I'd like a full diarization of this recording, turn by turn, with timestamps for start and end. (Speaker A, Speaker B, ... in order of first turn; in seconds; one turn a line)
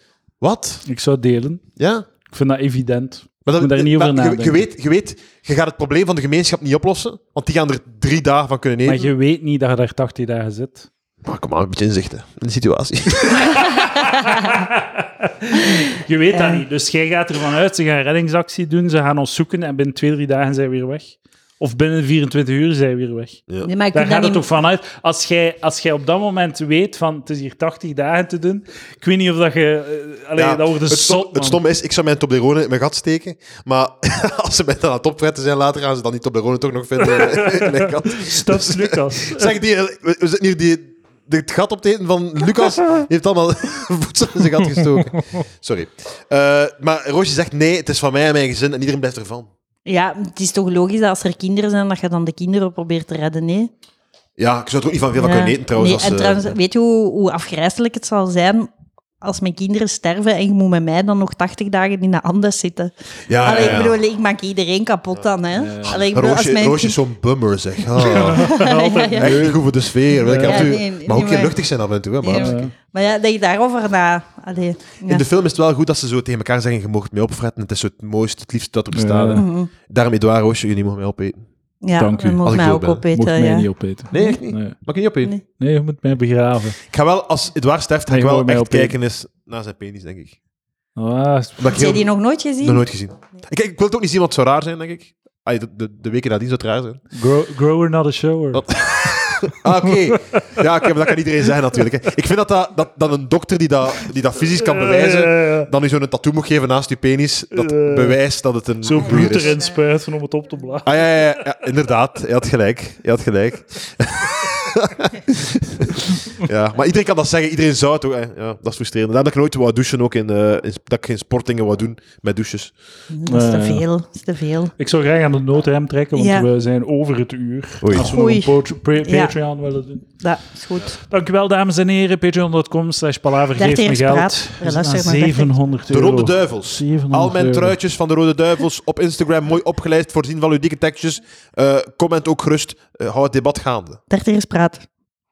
Speaker A: 0.4-0.8
Speaker B: 0.8-1.6
Speaker A: 1.8-2.1
Speaker B: 2.3-4.6
Speaker A: 3.5-9.1
Speaker B: 8.8-10.9
Speaker A: 11.2-13.6
Speaker B: 13.2-31.6
Speaker C: 13.6-14.5
Speaker C: 16.3-16.6
Speaker C: 23.6-24.4
Speaker A: 30.4-49.5
Speaker B: 37.1-39.5
Speaker C: 49.9-53.7
Speaker A: 54.4-56.5
Speaker C: 55.1-58.7
Speaker C: 59.2-67.0
Speaker A: 63.3-64.0
Speaker B: 65.5-66.0
Speaker A: 65.9-68.6
Speaker C: 68.0-69.5
Speaker B: 68.0-69.6
Speaker A: 69.2-72.7
Speaker B: 70.2-70.8
Speaker C: 70.3-71.5
Speaker C: 72.2-75.2
Speaker B: 72.3-72.7
Speaker A: 75.0-81.4
Speaker B: 78.9-79.5
Speaker C: 79.3-79.7
Speaker C: 81.8-84.4
Speaker B: 82.0-82.5
Speaker A: 82.4-83.0
Speaker B: 83.1-84.8
Speaker A: 84.1-85.3
Speaker B: 85.5-86.8
Speaker A: 86.9-90.3
Speaker B: 88.1-88.9
Speaker B: 91.0-91.8
Speaker A: 91.6-92.1
Speaker C: 91.6-92.8
Speaker A: 92.6-97.0
Speaker B: 97.1-100.6
Speaker A: 98.5-109.6
Speaker B: 104.5-105.7
Speaker B: 107.5-108.2
Speaker B: 108.8-110.9
Speaker C: 108.9-109.8
Speaker A: 110.8-122.7
Speaker C: 123.1-124.7
Speaker B: 123.3-123.8
Speaker B: 124.8-130.1
Speaker C: 126.1-126.5
Speaker A: 127.8-128.1
Speaker C: 127.9-129.4
Speaker C: 130.2-131.0
Speaker B: 131.0-137.8
Speaker C: 133.6-135.5
Speaker A: 135.9-144.0
Speaker C: 144.1-144.8